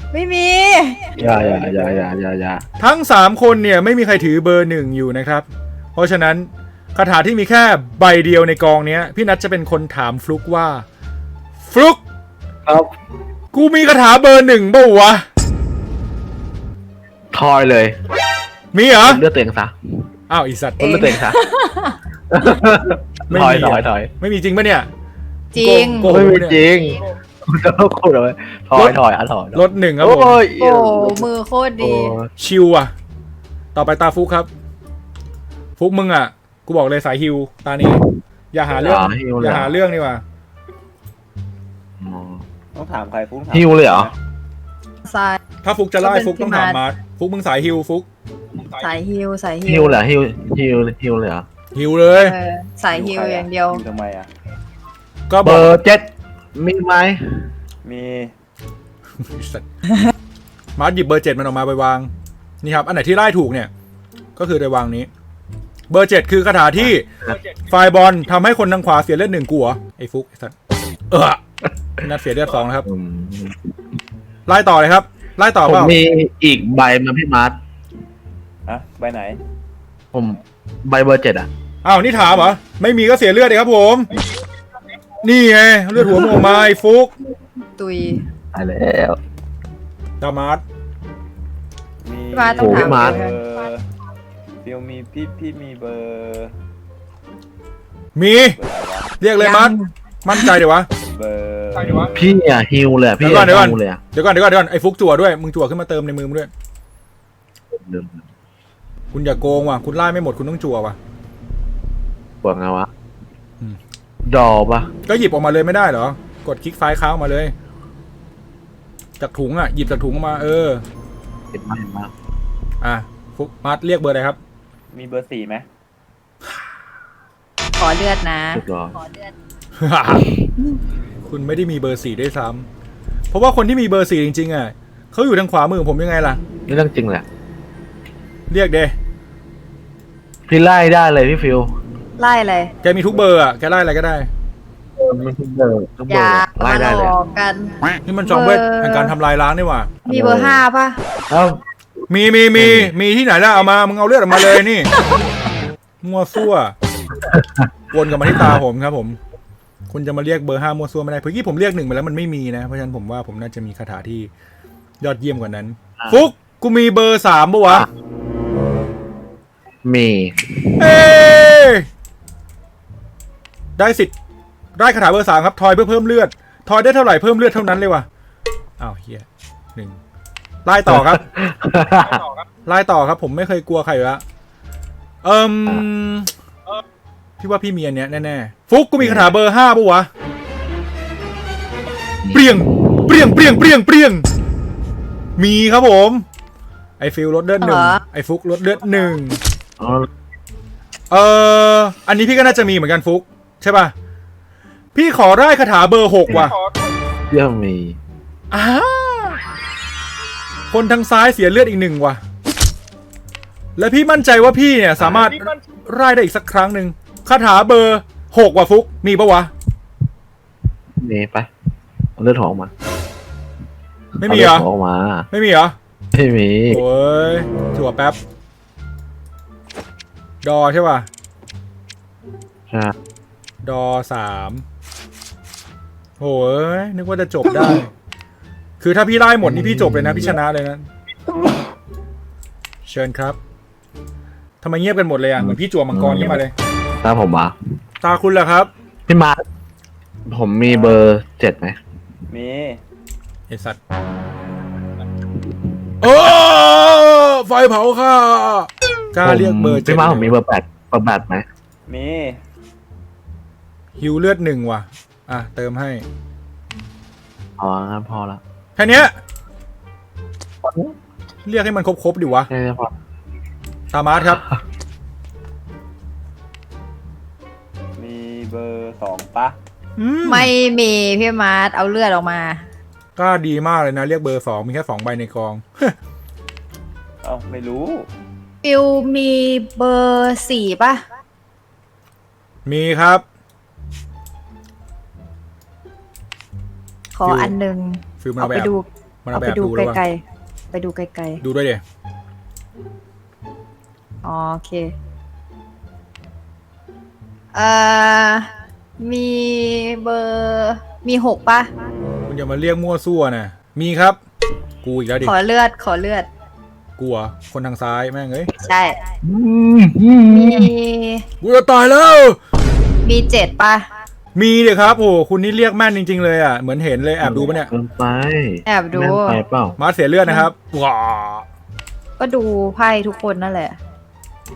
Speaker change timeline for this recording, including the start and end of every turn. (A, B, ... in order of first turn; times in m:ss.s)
0:00.1-0:01.0 A
0:01.1-0:02.1 B
0:01.2-0:02.6 C
0:02.8-0:10.8 D
0:11.6-0:12.0 D
0:12.6-0:12.9 C
0:13.5-0:15.3 D
0:17.3-0:18.0 C
0:18.7-0:19.2 D
0:19.0-0:20.0 C
0:20.3-0:21.2 D
0:20.8-0:21.4 C
0:20.8-0:22.0 A
0:22.3-0:24.1 C
0:23.3-0:24.9 D
0:25.5-0:26.1 A
0:25.6-0:26.6 D
0:26.1-0:31.3 C
0:29.5-0:30.4 D
0:30.6-0:32.2 A
0:31.8-0:32.3 C
0:32.4-0:32.9 D
0:33.7-0:34.5 D
0:35.8-0:40.2 D
0:38.7-0:39.7 C
0:42.0-0:42.4 C
0:42.8-0:44.2 B
0:43.5-0:44.1 C
0:45.0-0:45.4 A
0:45.6-0:48.1 D
0:46.0-0:46.8 A
0:48.8-0:50.0 A
0:49.7-0:51.4 C
0:51.7-0:52.4 D
0:52.1-0:53.8 A
0:52.9-0:54.3 B
0:55.3-0:55.7 D
0:55.4-0:57.5 C
0:57.8-0:58.3 B
0:59.2-0:59.6 D
1:00.8-1:03.7 D
1:04.4-1:05.1 D
1:05.9-1:07.1 D
1:06.8-1:07.4 C
1:07.7-1:10.6 D
1:11.1-1:11.4 D
1:12.0-1:12.9 D
1:12.8-1:13.7 C
1:14.5-1:16.0 D
1:15.6-1:17.6 C
1:18.7-1:19.4 B
1:20.1-1:21.5 C
1:21.8-1:24.1 D
1:25.2-1:27.1 D
1:27.8-1:28.2 A
1:28.5-1:29.2 C
1:30.2-1:30.6 D
1:32.0-1:33.9 B
1:32.3-1:33.4 A
1:32.6-1:33.2 C
1:34.6-1:36.6 B
1:38.2-1:38.6 D
1:38.6-1:39.1 B
1:39.2-1:39.7 D
1:39.4-1:40.4 A
1:40.2-1:40.9 D
1:41.1-1:42.1 B
1:42.2-1:44.0 C
1:43.2-1:46.5 D
1:47.7-1:48.2 C
1:49.1-1:51.0 D
1:52.4-1:52.9 C
1:54.2-1:54.9 C
1:55.1-1:57.5 D
1:59.2-2:00.8 D
2:01.5-2:02.1 C
2:02.8-2:04.4 D
2:04.9-2:05.6 B
2:07.8-2:08.6 A
2:08.5-2:08.9 C
2:09.8-2:10.4 D
2:11.3-2:12.7 D
2:13.3-2:16.4 D
2:16.7-2:17.2 C
2:18.5-2:18.9 D
2:20.5-2:21.7 C
2:22.2-2:22.7 A
2:22.8-2:24.3 D
2:25.0-2:27.2 C
2:26.1-2:27.7 A
2:28.1-2:29.9 D
2:28.2-2:29.1 A
2:30.1-2:30.6 C
2:30.1-2:31.0 A
2:31.3-2:31.6 C
2:32.1-2:34.9 D
2:32.6-2:32.9 C
2:36.0-2:36.8 D
2:37.1-2:37.7 C
2:37.9-2:39.2 D
2:38.2-2:38.6 C
2:39.9-2:44.3 D
2:45.0-2:47.9 D
2:46.0-2:46.2 C
2:49.8-2:50.9 C
2:50.8-2:51.9 D
2:53.8-2:54.1 D
2:54.8-2:58.1 D
2:58.8-3:00.0 D
3:00.6-3:01.2 D
3:00.9-3:02.2 C
3:02.6-3:04.2 D
3:05.2-3:06.3 D
3:07.4-3:10.1 D
3:09.0-3:09.4 C
3:12.2-3:12.7 C
3:12.3-3:14.2 D
3:15.4-3:16.3 D
3:17.0-3:19.4 D
3:17.6-3:18.0 A
3:19.8-3:20.1 C
3:21.1-3:23.9 D
3:24.9-3:26.6 D
3:27.3-3:28.0 C
3:28.5-3:29.4 D
3:30.7-3:32.2 D
3:33.8-3:39.5 D
3:35.0-3:35.4 C
3:41.0-3:41.5 C
3:42.2-3:42.7 C
3:44.2-3:45.3 C
3:44.2-3:44.7 D
3:45.3-3:45.8 D
3:46.1-3:46.8 C
3:46.7-3:48.2 D
3:50.4-3:51.1 D
3:52.7-3:53.0 C
3:53.6-3:54.6 D
3:56.2-3:57.9 D
3:58.8-4:00.9 D
3:59.4-4:00.4 C
4:02.8-4:03.4 D
4:04.6-4:06.5 D
4:05.4-4:06.4 C
4:07.0-4:07.5 C
4:08.0-4:08.7 D
4:09.1-4:09.4 C
4:10.3-4:11.8 C
4:10.7-4:11.0 B
4:12.3-4:12.8 B
4:13.5-4:13.8 D
4:16.0-4:20.4 D
4:19.2-4:21.5 C
4:21.9-4:22.4 B
4:24.0-4:26.0 D
4:27.6-4:28.4 C
4:28.8-4:29.2 D
4:30.6-4:31.0 C
4:31.4-4:32.5 D
4:32.5-4:32.9 C
4:33.9-4:34.4 D
4:38.0-4:39.6 B
4:40.0-4:40.5 D
4:40.2-4:42.6 A
4:43.2-4:46.0 D
4:47.2-4:48.1 B
4:48.6-4:51.0 A
4:52.6-4:53.2 D
4:57.1-5:00.2 A
4:57.2-4:57.6 D
4:58.2-4:58.7 D
4:59.2-5:00.0 D
5:00.7-5:01.4 A
5:01.4-5:01.8 D
5:04.2-5:04.9 A
5:07.5-5:08.5 A
5:09.0-5:11.7 A
5:12.3-5:14.2 D
5:14.8-5:15.3 D
5:15.2-5:16.3 A
5:17.0-5:18.5 D
5:18.6-5:19.0 A
5:19.2-5:20.7 C
5:20.3-5:21.2 A
5:21.4-5:22.4 D
5:23.0-5:23.9 A
5:24.4-5:27.7 D
5:27.2-5:29.8 C
5:28.7-5:29.4 A
5:29.8-5:31.5 D
5:32.2-5:33.8 A